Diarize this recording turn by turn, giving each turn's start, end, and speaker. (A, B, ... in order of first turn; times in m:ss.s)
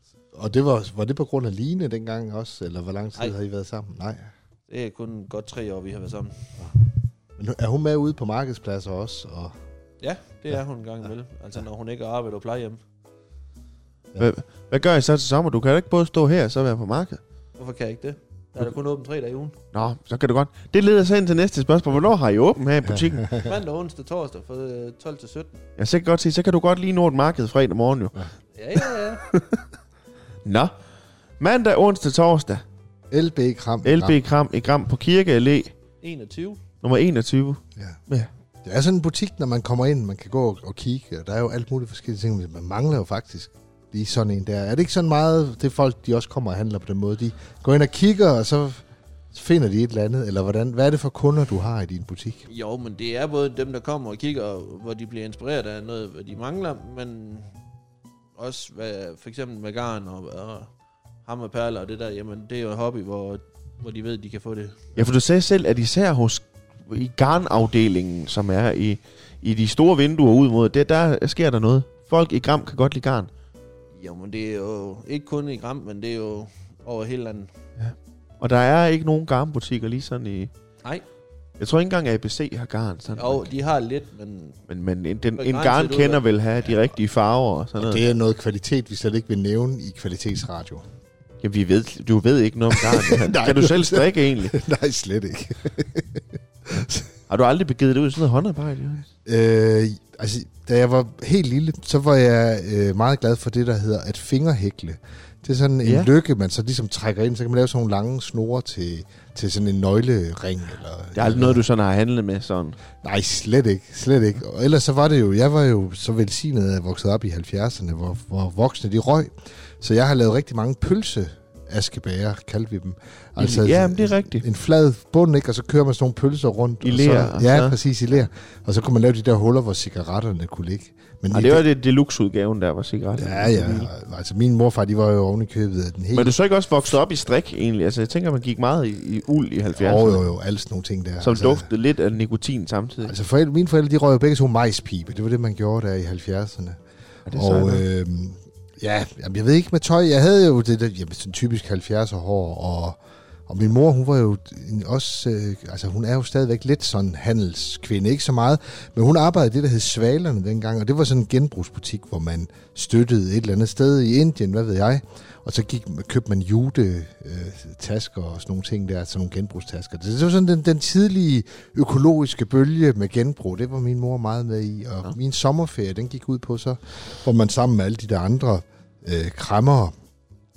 0:00.3-0:04.3 A
0:04.7-0:06.5 B
0:07.4-0:09.5 A
0:10.0-0:12.8 B
0:14.2-0:17.2 C
0:17.6-0:19.5 B
0:19.7-0:23.3 C
0:22.8-0:23.5 A
0:23.3-0:25.6 B
0:25.8-0:28.2 C
0:28.6-0:29.2 B
0:28.8-0:29.6 C
0:30.4-0:30.7 C
0:31.4-0:32.6 C
0:33.1-0:34.2 A
0:33.8-0:35.7 C
0:36.0-0:36.6 B
0:36.8-0:38.3 C
0:38.6-0:52.4 A
0:52.5-0:57.5 B
0:58.4-1:00.7 B
1:01.2-1:04.9 B
1:05.0-1:13.3 C
1:14.0-1:17.5 B
1:17.8-1:20.5 C
1:21.6-1:23.5 C
1:23.2-1:24.6 B
1:24.7-1:28.0 C
1:25.4-1:26.2 B
1:27.8-1:30.8 A
1:31.4-1:34.6 C
1:32.7-1:37.1 A
1:37.3-1:39.1 C
1:39.2-1:51.6 A
1:45.8-1:46.1 C
1:51.1-1:52.8 C
1:53.0-2:11.6 A
2:03.4-2:04.4 C
2:06.8-2:07.8 C
2:11.3-2:13.9 C
2:13.2-2:16.3 A
2:16.1-2:20.2 C
2:19.7-2:21.7 A
2:21.2-2:23.1 C
2:23.0-2:26.8 A
2:27.3-2:27.8 C
2:27.3-2:59.9 A